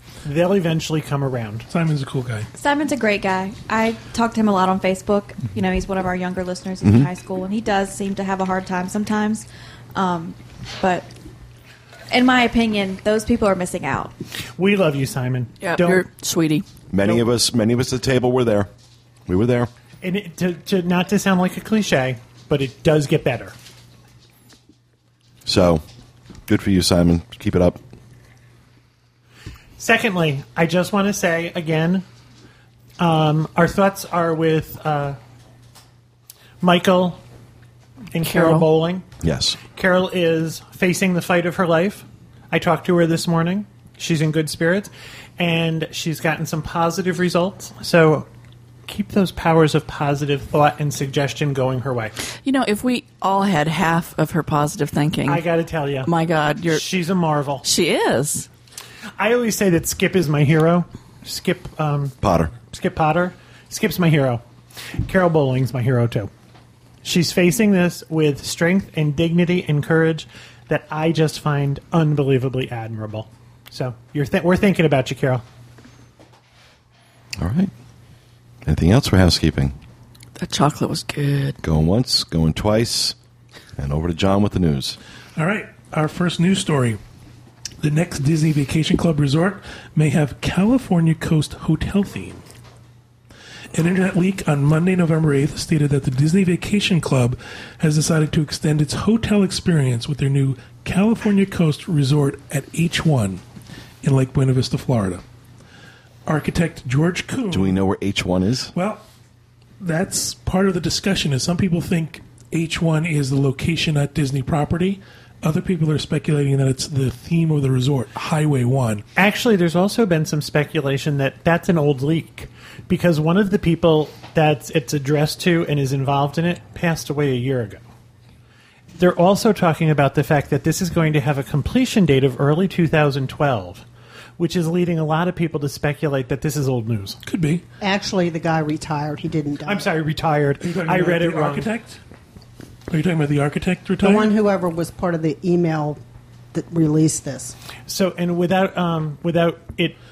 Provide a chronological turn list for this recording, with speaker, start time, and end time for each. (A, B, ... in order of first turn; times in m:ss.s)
0:00.2-0:01.7 A
0:01.7-0:02.5 B
0:02.6-0:11.1 C
0:06.8-0:07.1 D
0:12.1-0:14.1 C
0:14.6-0:16.0 A
0:15.6-0:16.6 E
0:16.9-0:18.7 D
0:19.3-0:19.7 D
0:20.0-0:23.5 A
0:25.4-0:25.8 D
0:26.5-0:27.8 D
0:29.8-0:32.0 A
0:33.0-0:35.2 A
0:36.6-0:37.2 A
0:38.1-0:39.0 A
0:38.2-0:38.6 E
0:39.2-0:39.6 D
0:39.7-0:48.3 A
0:48.9-0:52.1 A
0:52.4-0:55.4 E
0:55.2-0:56.1 A
0:56.0-0:56.8 E
0:56.7-0:57.6 A
0:57.6-0:58.5 E
0:59.2-1:04.4 A
1:02.2-1:02.5 D
1:05.0-1:06.3 A
1:07.0-1:15.4 A
1:17.4-1:17.7 D
1:18.6-1:19.7 D
1:20.4-1:21.6 E
1:21.6-1:23.1 D
1:23.8-1:25.0 D
1:25.4-1:27.0 B
1:27.8-1:32.4 B
1:33.7-1:43.4 B
1:44.0-1:45.2 B
1:46.2-1:47.8 B
1:47.5-1:48.7 D
1:48.7-1:49.0 B
1:49.8-1:59.0 B
1:59.1-2:07.8 A
2:09.0-2:13.8 A
2:14.4-2:17.2 A
2:17.2-2:17.6 B
2:17.8-2:19.9 F
2:19.6-2:21.7 A
2:20.6-2:22.0 B
2:22.9-2:24.3 B
2:24.0-2:26.0 F
2:26.5-2:27.5 F
2:27.9-2:30.0 A